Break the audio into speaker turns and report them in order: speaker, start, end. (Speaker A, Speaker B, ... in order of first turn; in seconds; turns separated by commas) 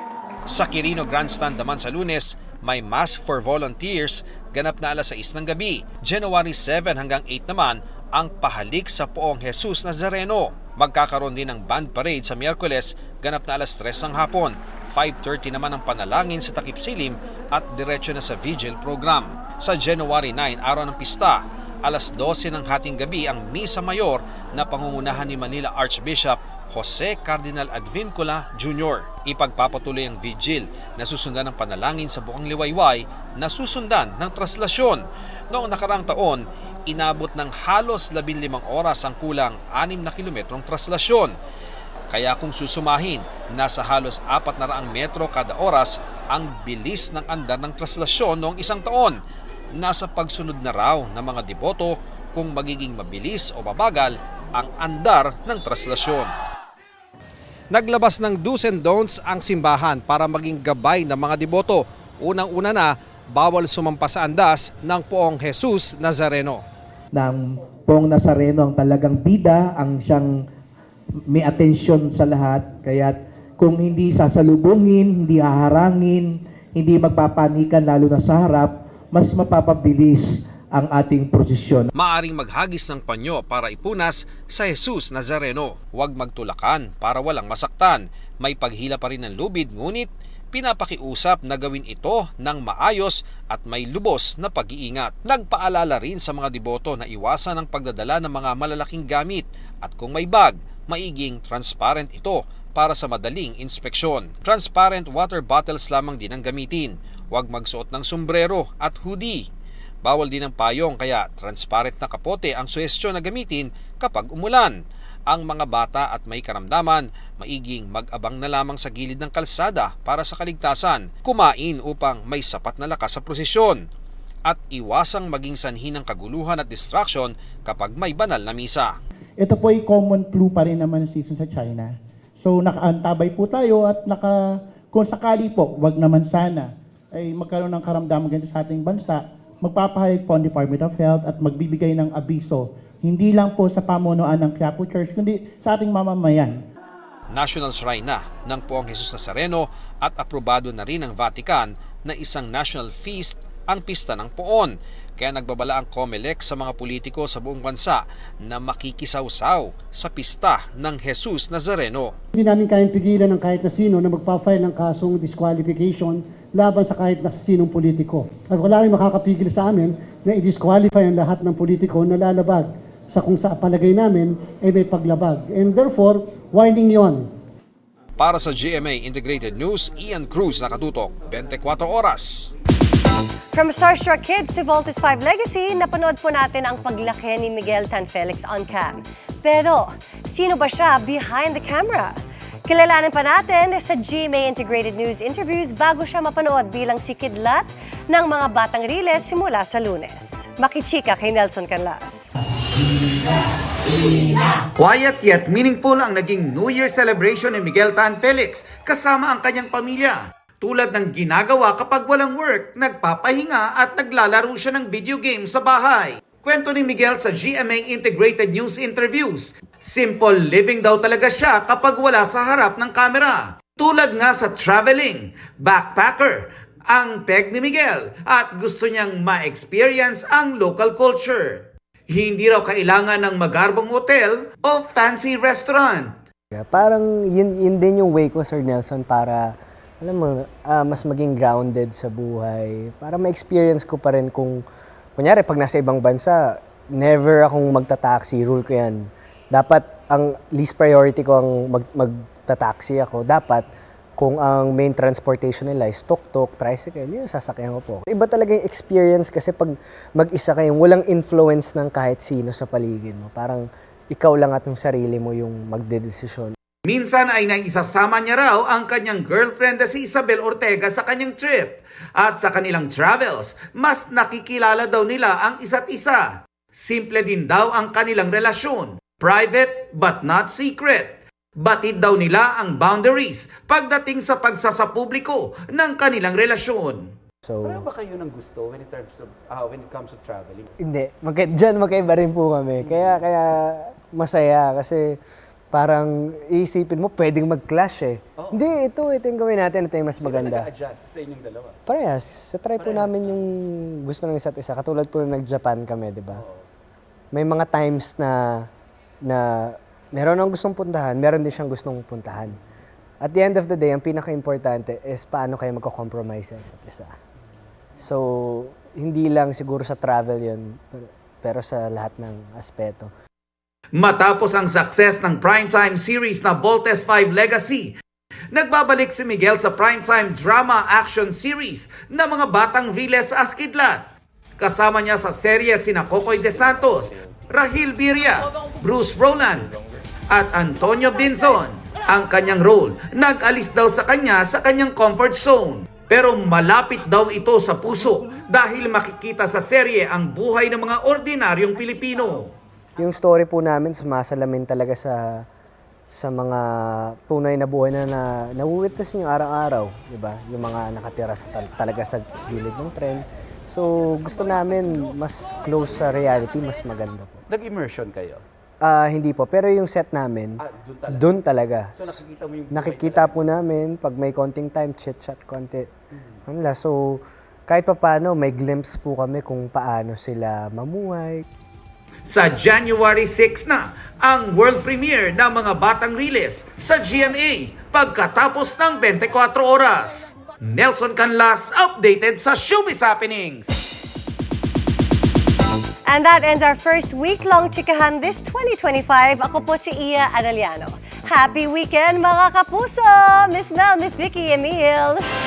Speaker A: 0.5-41.3, Speaker A: 42.1-49.2, Speaker A: 49.8-56.3, Speaker A: 57.7-66.6, Speaker B: 67.1-70.3, Speaker B: 71.3-81.9, Speaker A: 82.0-109.4, Speaker A: 110.0-114.7, Speaker A: 115.3-123.8, Speaker A: 124.5-128.9, Speaker C: 129.4-134.3, Speaker C: 134.9-146.6, Speaker A: 147.3-162.2, Speaker D: 162.3-177.3, Speaker A: 178.2-182.5, Speaker E: 183.5-202.3, Speaker F: 204.8-236.2, Speaker G: 236.5-244.6, Speaker G: 245.2-253.7, Speaker G: 254.2-266.6, Speaker F: 266.9-287.1, Speaker G: 287.4-287.9, Speaker H: 287.6-290.7, Speaker G: 290.8-295.2, Speaker H: 292.8-293.2, Speaker G: 295.7-300.7, Speaker H: 298.4-298.7, Speaker H: 300.2-301.8, Speaker G: 301.9-306.4, Speaker H: 302.8-303.4, Speaker H: 306.3-306.7, Speaker G: 307.3-308.7, Speaker G: 309.3-312.6, Speaker G: 313.2-317.1, Speaker G: 318.0-323.1, Speaker F: 324.0-327.9, Speaker F: 328.5-334.1, Speaker F: 334.6-339.7, Speaker F: 340.3-352.5, Speaker G: 353.0-355.5, Speaker G: 356.1-367.4, Speaker H: 367.5-368.4, Speaker G: 368.8-375.9, Speaker H: 370.6-371.3, Speaker H: 371.9-373.5, Speaker H: 376.1-376.4, Speaker G: 376.4-381.4, Speaker F: 382.3-393.8, Speaker E: 396.1-405.2